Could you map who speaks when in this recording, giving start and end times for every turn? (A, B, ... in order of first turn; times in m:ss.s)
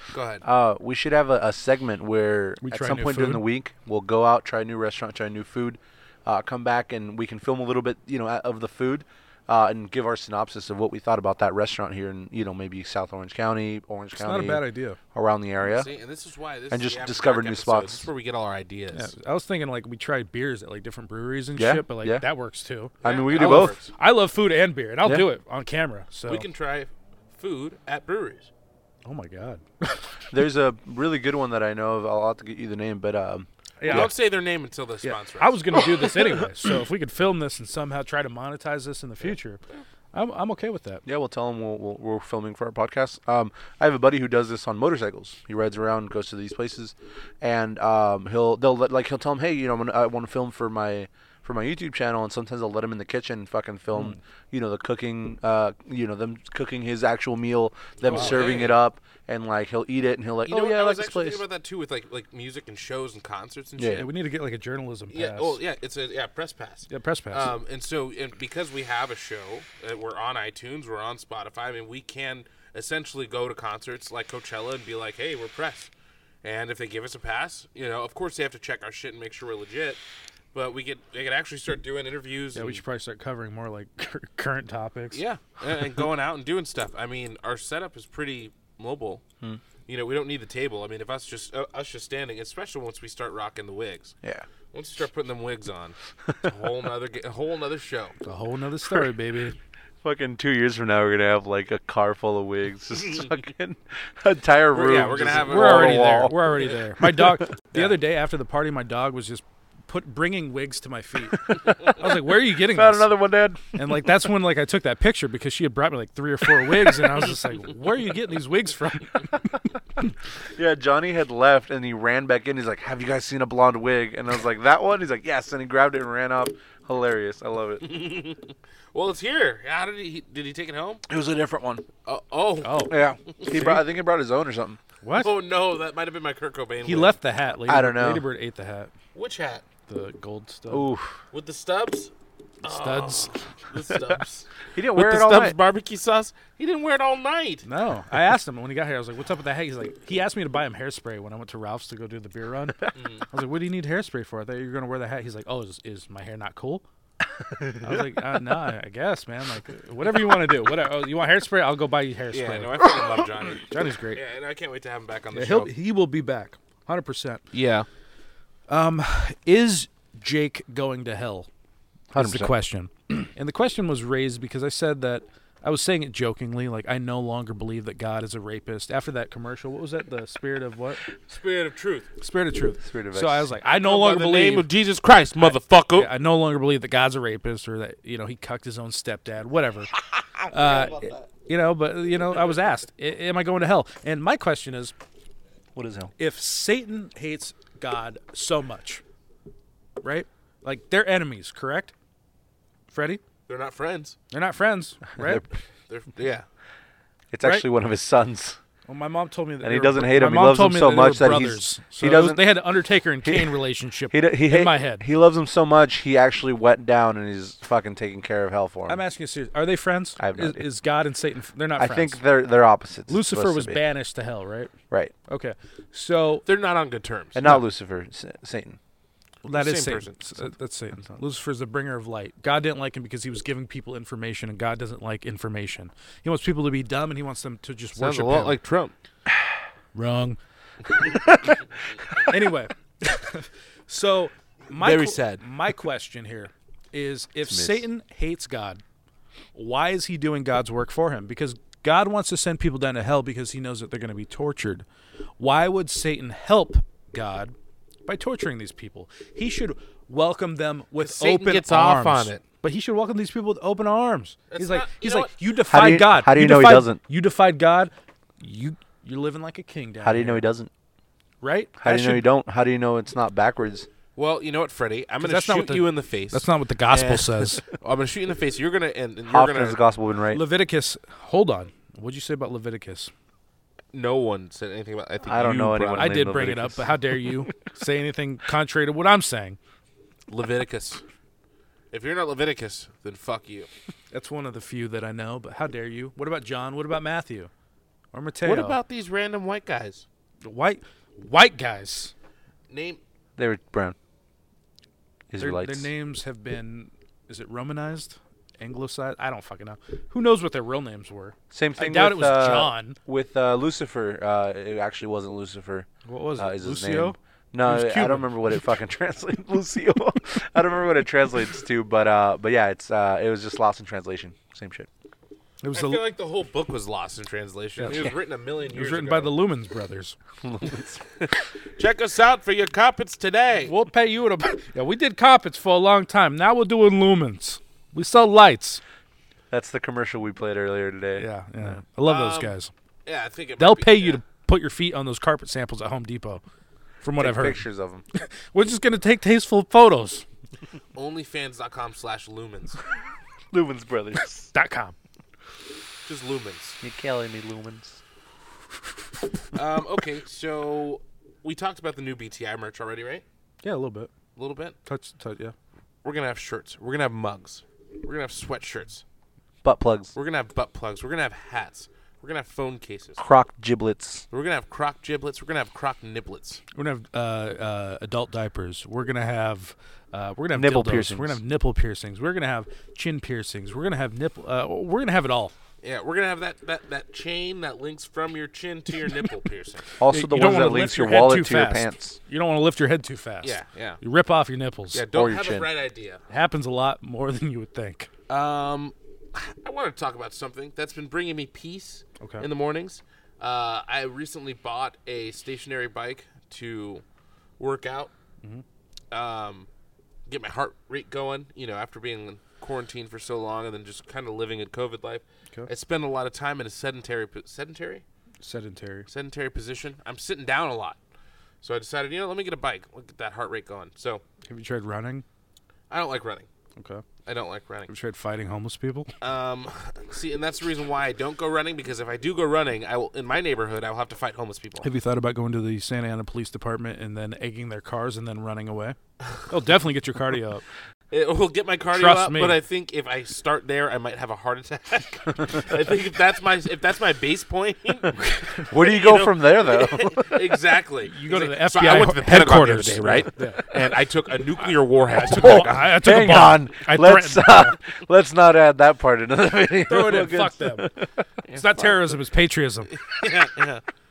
0:00.1-0:00.4 A
0:00.4-0:15.9 B
0:02.6-0:03.4 C
0:14.2-0:15.0 C
0:15.6-0:19.1 A
0:16.7-0:18.1 B
0:18.9-0:26.5 C
0:21.6-0:22.2 B
0:23.0-0:23.8 B
0:23.0-0:23.9 A
0:25.0-0:25.3 B
0:26.3-0:28.5 A
0:29.0-0:30.0 C
0:30.3-0:34.1 B
0:33.8-0:34.1 C
0:33.9-0:35.8 A
0:35.0-0:39.6 C
0:40.1-0:41.0 C
0:41.0-1:01.4 B
0:53.9-0:54.2 C
0:58.0-0:58.8 A
0:58.1-0:58.4 C
1:00.5-1:04.1 A
1:03.8-1:04.0 B
1:03.9-1:05.6 C
1:05.1-1:15.9 A
1:06.9-1:07.5 C
1:16.4-1:20.0 A
1:20.5-1:22.8 A
1:22.6-1:25.2 C
1:25.1-1:29.2 A
1:29.9-1:34.1 A
1:34.7-1:38.1 A
1:38.2-1:39.6 C
1:38.9-1:39.1 B
1:40.0-1:46.4 B
1:44.7-1:46.4 A
1:45.2-1:59.6 C
1:51.3-1:53.8 B
2:00.6-2:07.9 B
2:07.8-2:11.0 A
2:11.1-2:11.8 B
2:12.0-2:12.9 A
2:12.6-2:13.0 C
2:12.9-2:14.8 B
2:13.5-2:13.8 C
2:15.0-2:15.3 C
2:15.2-2:17.1 A
2:16.8-2:18.9 C
2:17.7-2:18.2 B
2:19.1-2:19.6 A
2:19.9-2:20.9 C
2:20.7-2:21.2 B
2:21.3-2:22.1 A
2:22.6-2:23.5 C
2:22.6-2:27.7 A
2:24.7-2:25.6 B
2:27.6-2:36.8 C
2:33.0-2:33.2 A
2:37.5-2:38.0 B
2:37.8-2:42.8 C
2:42.3-2:45.7 A
2:43.6-2:44.2 C
2:45.3-2:47.4 C
2:47.5-2:47.9 A
2:48.7-2:51.5 C
2:52.1-3:01.0 C
2:52.1-2:52.5 B
3:01.3-3:02.1 A
3:02.2-3:04.7 C
3:02.8-3:03.5 B
3:03.6-3:06.1 A
3:05.4-3:09.9 C
3:10.5-3:15.0 C
3:15.7-3:16.1 B
3:16.2-3:19.0 C
3:20.0-3:21.9 C
3:22.9-3:23.2 C
3:23.5-3:24.2 A
3:24.3-3:25.4 C
3:25.2-3:25.5 B
3:25.9-3:26.4 A
3:27.3-3:28.6 B
3:28.9-3:35.1 C
3:29.6-3:32.5 B
3:33.2-3:33.5 B
3:34.1-3:39.0 B
3:38.9-3:42.2 C
3:40.2-3:40.6 B
3:41.8-3:43.8 B
3:43.1-3:44.7 C
3:45.3-3:46.4 C
3:46.4-3:47.4 A
3:47.3-3:48.8 B
3:49.4-3:50.2 A
3:49.4-3:58.6 C
3:58.0-3:58.9 A
3:59.9-4:00.4 C
4:02.3-4:08.8 C
4:04.8-4:05.4 A
4:07.5-4:07.8 B
4:09.6-4:14.8 C
4:15.4-4:17.6 C
4:18.0-4:30.4 C
4:21.0-4:22.4 A
4:24.5-4:25.4 A
4:25.7-4:27.0 B
4:30.0-4:30.7 B
4:31.4-4:32.3 C
4:31.8-4:33.9 B
4:34.2-4:39.8 A
4:35.2-4:37.6 C
4:39.3-4:40.4 B
4:40.3-4:43.1 C
4:43.9-4:46.2 A
4:45.2-4:47.0 B
4:46.0-4:49.6 C
4:50.3-4:51.0 A
4:51.9-4:53.7 A
4:54.1-4:57.5 C
4:58.1-4:58.8 C
4:58.4-5:00.0 A
5:00.4-5:02.1 C
5:02.7-5:03.0 A
5:03.4-5:04.0 B
5:05.3-5:05.9 B
5:05.4-5:13.0 C
5:11.5-5:24.9 B
5:16.0-5:18.6 C
5:25.6-5:26.1 C
5:25.7-5:29.4 A
5:27.9-5:28.1 B
5:28.7-5:30.2 C
5:30.4-5:31.0 B
5:31.8-5:33.7 A
5:33.6-5:38.8 C
5:39.5-5:41.7 B
5:41.2-5:42.7 C
5:42.0-5:42.5 A
5:43.0-5:44.2 A
5:43.6-5:46.4 C
5:47.0-5:47.6 C
5:47.2-5:48.0 B
5:48.1-5:50.2 C
5:51.0-5:52.8 A
5:53.5-5:54.5 B
5:54.5-5:55.0 C
5:56.0-5:56.8 A
5:56.8-5:58.0 B
5:59.5-6:03.2 A
6:03.6-6:04.1 C
6:04.4-6:04.8 A
6:04.9-6:05.6 C
6:06.0-6:09.0 A
6:09.6-6:10.1 B
6:10.1-6:13.2 A
6:13.2-6:14.2 B
6:14.3-6:16.6 A
6:16.7-6:25.5 C
6:20.5-6:21.4 B
6:25.8-6:29.9 A
6:30.0-6:32.2 B
6:30.1-6:35.0 C
6:33.4-6:34.0 A
6:34.9-6:36.2 A
6:35.1-6:35.7 B
6:36.3-6:38.1 C
6:38.3-6:47.0 A
6:42.2-6:42.5 C
6:47.6-6:48.1 A
6:49.1-6:49.7 A
6:50.3-6:58.0 A
6:58.4-6:59.1 C
6:59.1-7:01.0 A
7:01.6-7:04.2 A
7:04.4-7:05.2 C
7:05.9-7:06.5 A
7:06.8-7:07.0 C
7:07.2-7:07.9 A
7:07.9-7:09.1 C
7:09.2-7:14.9 A
7:14.8-7:19.0 C
7:19.5-7:20.6 C
7:21.1-7:28.1 A
7:21.9-7:22.6 C
7:28.2-7:28.7 C
7:28.7-7:30.6 B
7:28.7-7:36.0 A
7:31.0-7:33.6 C
7:35.1-7:37.8 C
7:35.4-7:41.2 B
7:39.9-7:40.9 C
7:41.5-7:42.9 C
7:42.9-7:43.8 A